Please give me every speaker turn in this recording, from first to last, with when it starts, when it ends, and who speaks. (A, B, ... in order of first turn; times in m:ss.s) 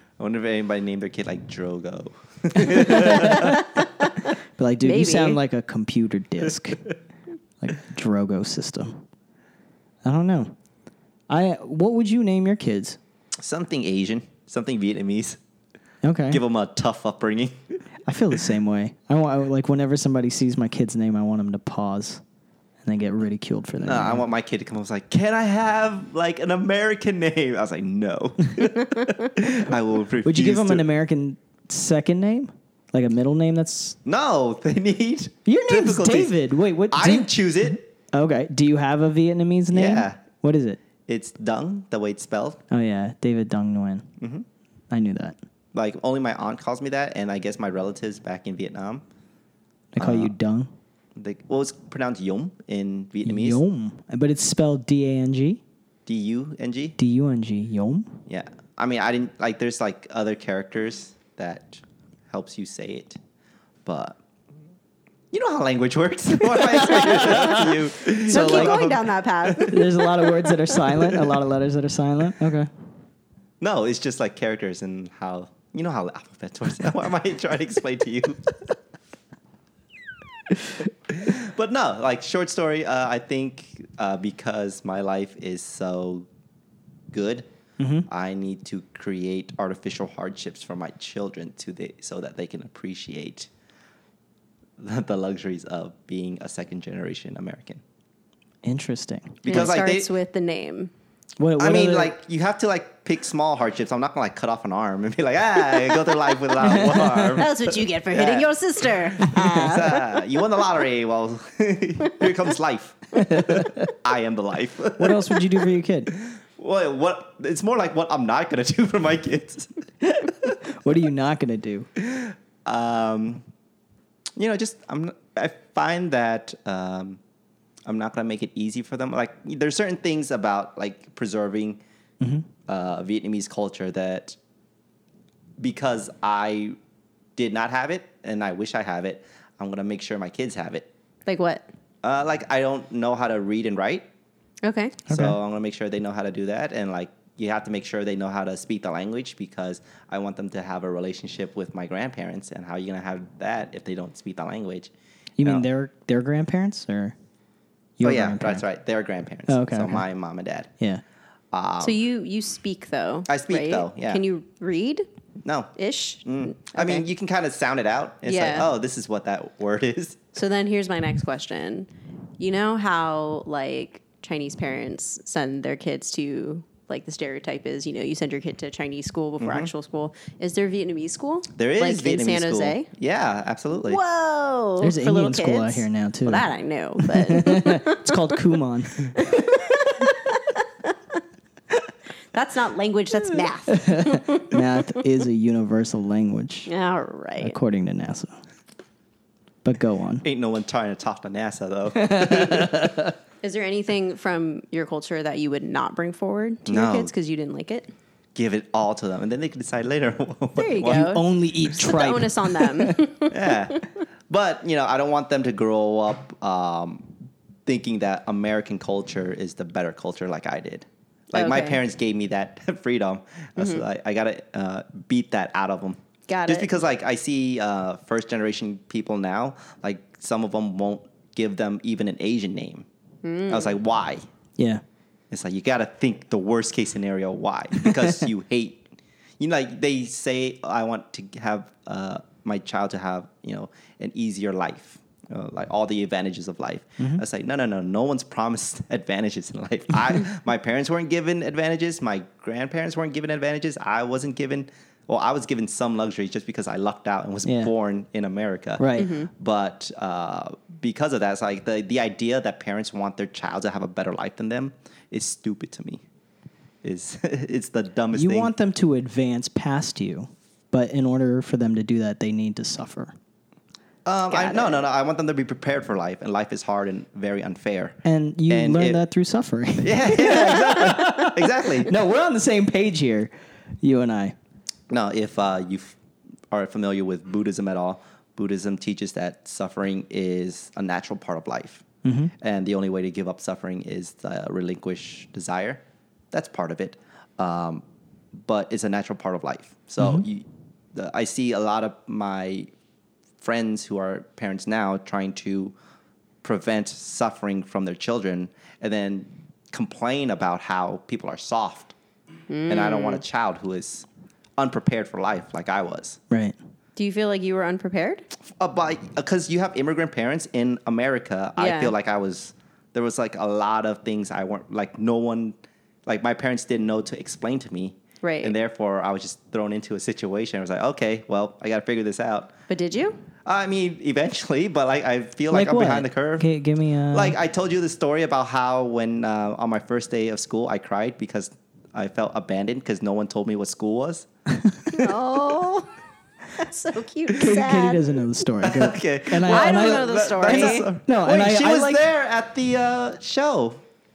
0:00.2-0:03.7 A
0:02.6-0:03.6 B
0:02.7-0:04.2 C
0:04.6-0:06.9 B
0:04.8-0:05.4 C
0:07.6-0:09.0 B
0:10.0-0:10.6 B
0:11.3-0:13.0 B
0:13.4-0:15.4 A
0:16.0-0:16.4 B
0:16.3-0:17.8 A
0:18.1-0:22.2 B
0:22.8-0:24.2 B
0:23.8-0:30.8 A
0:30.2-0:34.0 B
0:34.0-0:36.4 A
0:35.5-0:37.3 B
0:36.9-0:37.8 A
0:38.1-0:40.8 B
0:39.7-0:40.2 A
0:41.1-0:42.6 A
0:42.7-0:44.1 B
0:44.2-0:44.5 A
0:44.9-0:45.4 B
0:45.7-0:49.0 A
0:50.0-0:50.7 B
0:50.0-0:50.3 A
0:51.2-0:53.6 A
0:53.2-0:55.6 B
0:56.1-0:57.0 A
0:57.0-0:58.2 B
0:58.3-1:03.2 A
1:03.8-1:04.2 A
1:05.3-1:09.8 A
1:06.6-1:07.7 B
1:07.0-1:07.5 C
1:08.2-1:11.1 C
1:08.3-1:08.8 B
1:09.7-1:12.7 B
1:13.6-1:18.8 A
1:21.1-1:26.3 A
1:27.1-1:27.5 A
1:27.8-1:28.1 B
1:28.1-1:33.5 A
1:34.8-1:37.8 A
1:38.6-1:39.7 B
1:39.4-1:40.1 A
1:39.5-1:40.9 C
1:41.4-1:42.1 B
1:41.6-1:55.5 A
1:46.6-1:47.4 B
1:46.8-1:50.2 C
1:49.2-1:49.6 B
1:53.2-1:53.9 B
1:55.0-1:56.1 B
1:56.2-1:59.8 A
2:00.0-2:01.9 B
2:02.0-2:03.5 A
2:04.4-2:07.2 A
2:07.9-2:11.8 A
2:12.2-2:12.5 B
2:12.7-2:14.4 A
2:15.6-2:16.8 A
2:17.4-2:20.9 A
2:21.3-2:21.7 C
2:22.0-2:24.1 A
2:24.6-2:25.0 C
2:25.1-2:25.4 B
2:25.1-2:35.7 A
2:35.4-2:37.2 B
2:38.0-2:38.6 B
2:38.0-2:40.7 A
2:39.5-2:40.0 B
2:41.5-2:42.0 A
2:41.8-2:45.1 C
2:43.3-2:44.2 A
2:45.4-2:45.7 A
2:45.8-2:47.0 C
2:46.2-2:50.3 A
2:48.2-2:48.7 C
2:50.4-3:02.9 C
2:59.4-2:59.7 A
3:01.6-3:04.0 A
3:03.8-3:08.4 C
3:04.8-3:06.5 B
3:07.0-3:09.5 B
3:09.2-3:10.9 C
3:12.3-3:15.0 C
3:13.7-3:16.7 B
3:16.7-3:17.6 C
3:17.4-3:18.4 B
3:19.6-3:20.2 B
3:20.2-3:22.8 A
3:22.0-3:23.1 B
3:23.4-3:27.9 C
3:26.7-3:27.1 A
3:28.4-3:31.2 A
3:30.6-3:33.9 C
3:30.9-3:33.0 B
3:33.3-3:37.1 A
3:37.7-3:52.9 A
3:41.3-3:41.8 C
3:43.6-3:43.8 C
3:46.3-3:46.7 C
3:53.2-3:53.8 C
3:53.5-3:54.2 A
3:55.3-3:58.8 A
3:59.4-4:26.0 A
4:17.5-4:17.7 B
4:18.8-4:19.1 B
4:19.0-4:19.3 C
4:26.8-4:28.5 A
4:28.1-4:33.1 B
4:34.0-4:39.0 A
4:34.3-4:34.8 C
4:38.0-4:43.3 B
4:39.8-4:42.0 A
4:43.8-4:44.4 B
4:44.9-4:46.0 A
4:46.5-4:51.8 A
4:52.0-4:52.3 B
4:52.4-5:02.7 A
5:00.0-5:00.2 B
5:03.4-5:05.8 A
5:06.4-5:12.0 A
5:12.5-5:13.2 C
5:12.7-5:16.2 A
5:16.3-5:16.6 B
5:17.0-5:18.3 C
5:18.6-5:32.5 A
5:21.6-5:21.9 C
5:28.2-5:28.5 C
5:32.7-5:33.2 C
5:33.4-5:36.5 A
5:35.5-5:37.4 B
5:37.1-5:44.3 A
5:44.9-5:45.9 C
5:46.6-5:48.2 C
5:47.4-5:52.0 B
5:48.6-5:53.8 A
5:49.4-5:50.9 C